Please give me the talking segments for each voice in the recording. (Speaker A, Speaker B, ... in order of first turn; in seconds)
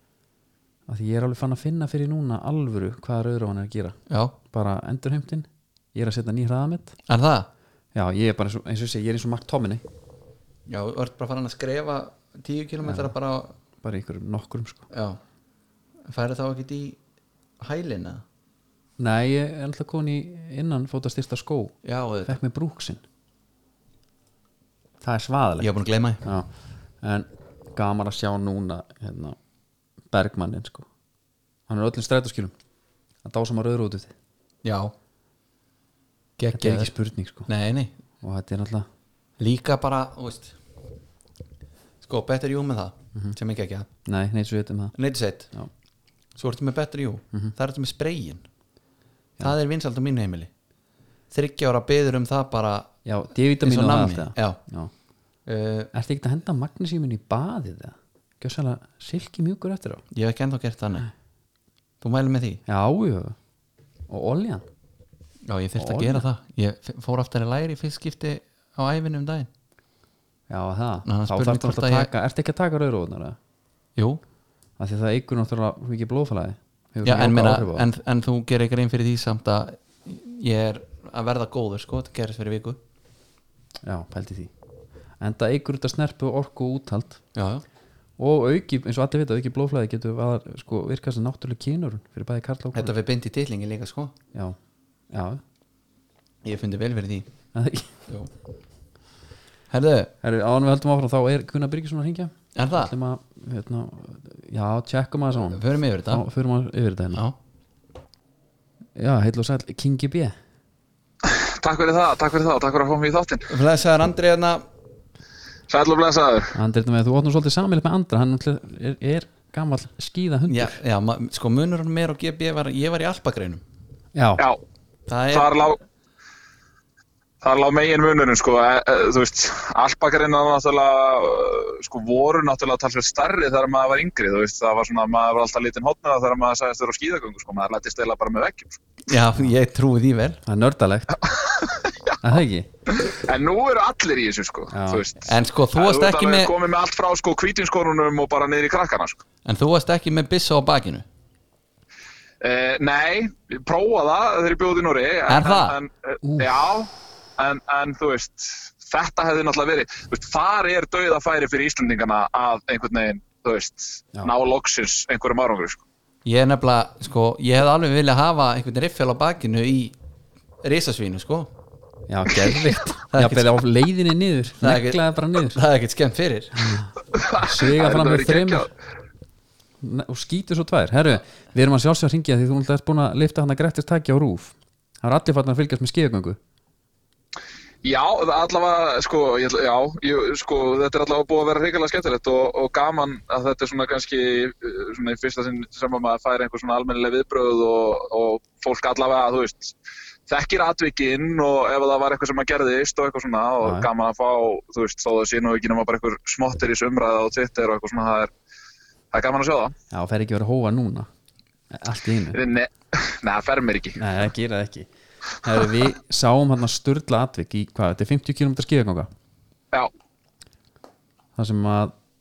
Speaker A: 0.9-7.0, 7.9-9.8, 12.8-13.1, 13.8-14.9, 19.0-23.0, 25.0-25.7, 26.2-26.5, 27.0-29.4, 30.1-30.9, 31.7-32.5, 33.2-34.1, 36.5-37.5, 38.2-38.9, 44.0-44.9, 53.0-54.9, 55.9-60.0, 62.7-63.4, 64.1-64.6, 65.8-66.2, 70.5-73.4, 74.8-77.8, 83.8-84.5, 85.2-87.2, 88.2-92.9, 95.1-95.4, 97.5-97.9, 100.2-107.2, 108.9-110.3, 116.5-120.8, 124.1-124.4, 140.4-141.2, 142.2-142.7, 144.7-145.1, 156.2-156.6, 172.1-175.6, 176.6-178.7, 179.8-186.4, 203.6-203.9, 209.9-211.1, 211.7-212.4, 214.0-214.9, 215.4-219.1, 221.3-221.9
Speaker B: 4.1-4.3, 7.1-7.5, 10.7-13.5, 14.9-15.2, 16.1-17.0, 17.6-18.2, 21.8-22.4, 25.6-26.2, 34.6-34.9, 36.4-36.9, 37.5-37.9, 39.4-40.5, 42.0-43.9, 44.9-45.5, 46.4-48.4, 49.4-50.5, 51.3-52.9, 53.6-54.6, 55.5-55.9, 60.1-61.1, 62.0-62.6, 65.5-69.5, 71.0-72.1, 77.0-82.8, 87.3-87.6, 92.7-94.1, 96.4-97.3, 99.7-100.1, 102.5-102.9, 105.5-106.2, 113.5-114.6, 120.5-123.6, 125.1-125.5, 139.1-140.4, 145.2-146.5, 149.4-151.1, 155.3-155.8, 166.2-169.9, 170.6-171.5, 173.1-173.5, 174.6-176.7
Speaker C: 111.2-113.5, 115.7-116.6, 125.3-125.8, 127.4-138.8, 141.2-142.2, 142.9-149.2, 152.4-165.8, 177.1-178.7, 187.8-199.7, 200.3-208.3, 209.1-209.7, 212.3-214.0